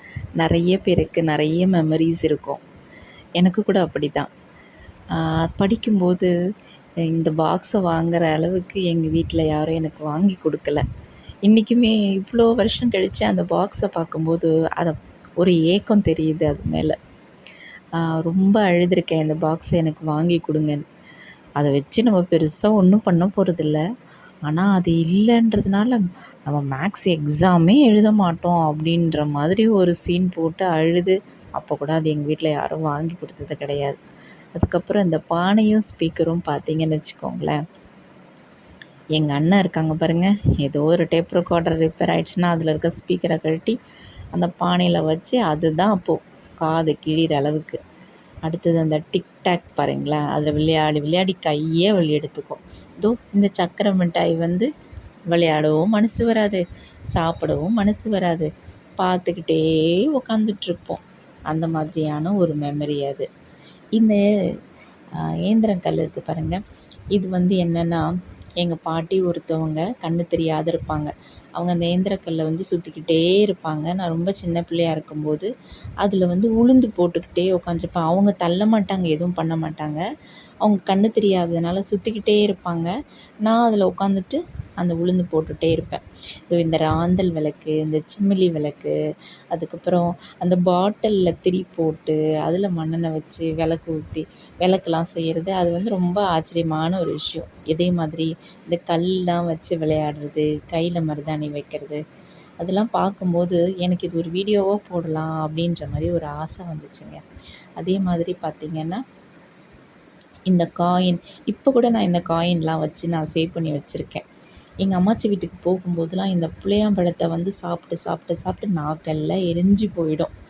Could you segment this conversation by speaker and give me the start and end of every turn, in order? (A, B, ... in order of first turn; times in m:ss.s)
0:00.4-0:02.6 A
0:03.4-0:04.3 A
0:05.1-0:06.3 A
0:07.1-0:10.8 A
0:11.4-0:17.0 A
0:18.0-0:20.8 A
0:21.6-0:23.8 A
0:24.5-0:34.0 A
0:34.6-0:37.6 A
0:39.2-0:43.8 A
0:44.3-0:47.8 A
0:48.4-0:54.7 A
0:55.3-0:56.6 A
0:57.1-1:03.3 A
1:04.0-1:04.2 A
1:05.2-1:06.6 A
1:07.1-1:15.5 A
1:16.0-1:20.0 A
1:20.6-1:22.9 A
1:23.4-1:28.9 A
1:29.5-1:42.0 A
1:42.6-1:47.2 A
1:47.8-1:49.0 A
1:50.5-1:54.2 A
1:54.8-2:00.3 A